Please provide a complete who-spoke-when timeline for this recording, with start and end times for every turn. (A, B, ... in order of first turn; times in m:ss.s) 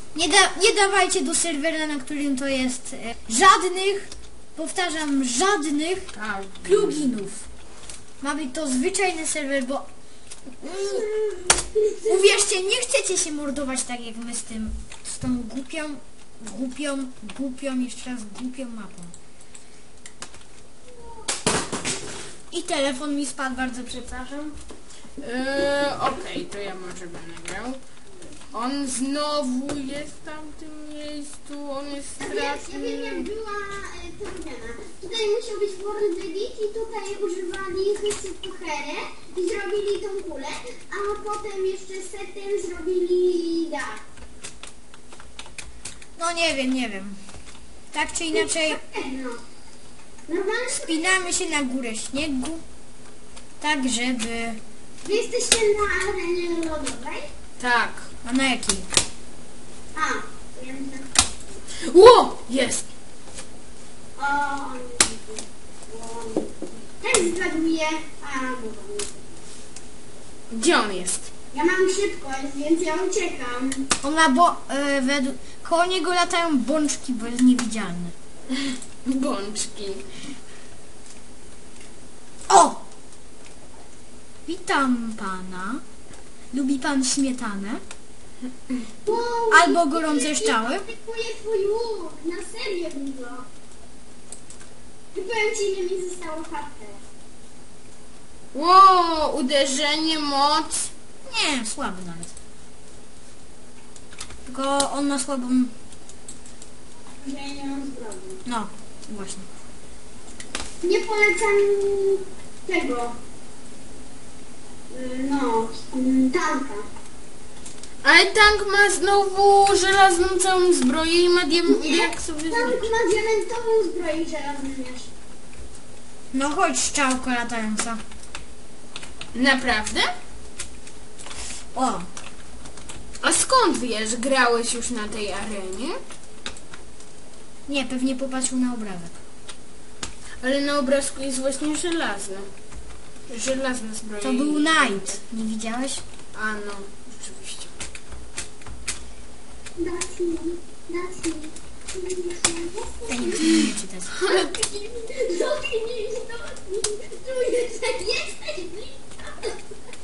0:00.1-0:06.1 A
0:06.1-0:07.1 B
0:06.6-0:07.5 A
0:08.2-0:09.9 A
0:10.6-0:11.2 A
0:10.7-0:12.3 C
0:12.0-0:19.1 A
0:22.5-0:24.6 A
0:25.2-0:27.8 B
0:28.5-0:33.3 B
0:32.2-0:44.0 C
0:46.2-0:47.2 A
0:47.9-0:48.8 A
0:48.3-0:49.4 C
0:50.3-0:51.3 C
0:50.7-0:52.6 A
0:53.6-0:54.6 A
0:55.0-0:57.3 C
0:57.6-0:58.1 B
0:58.2-0:58.9 A
0:59.9-1:01.1 C
1:01.8-1:02.8 B
1:04.2-1:09.2 C
1:10.5-1:11.3 B
1:11.5-1:13.9 C
1:14.0-1:18.1 A
1:19.0-1:20.1 B
1:22.5-1:22.8 A
1:24.5-1:25.8 A
1:26.5-1:27.8 A
1:29.0-1:33.5 C
1:29.5-1:30.8 A
1:35.1-1:37.0 C
1:38.5-1:40.9 B
1:41.3-1:42.3 A
1:44.5-1:45.7 A
1:47.2-1:48.4 C
1:48.4-1:49.5 A
1:50.8-1:53.2 C
1:54.9-1:56.9 C
1:58.0-2:02.9 B
2:01.7-2:05.1 C
2:06.3-2:08.0 A
2:09.3-2:10.1 B
2:11.7-2:12.1 A
2:13.2-2:16.0 B
2:17.7-2:19.2 A
2:20.4-2:22.5 B
2:23.3-2:25.2 B
2:24.2-2:26.0 A
2:26.3-2:27.7 B
2:29.8-2:33.7 C
2:33.1-2:34.1 A
2:34.1-2:34.5 B
2:34.2-2:39.6 C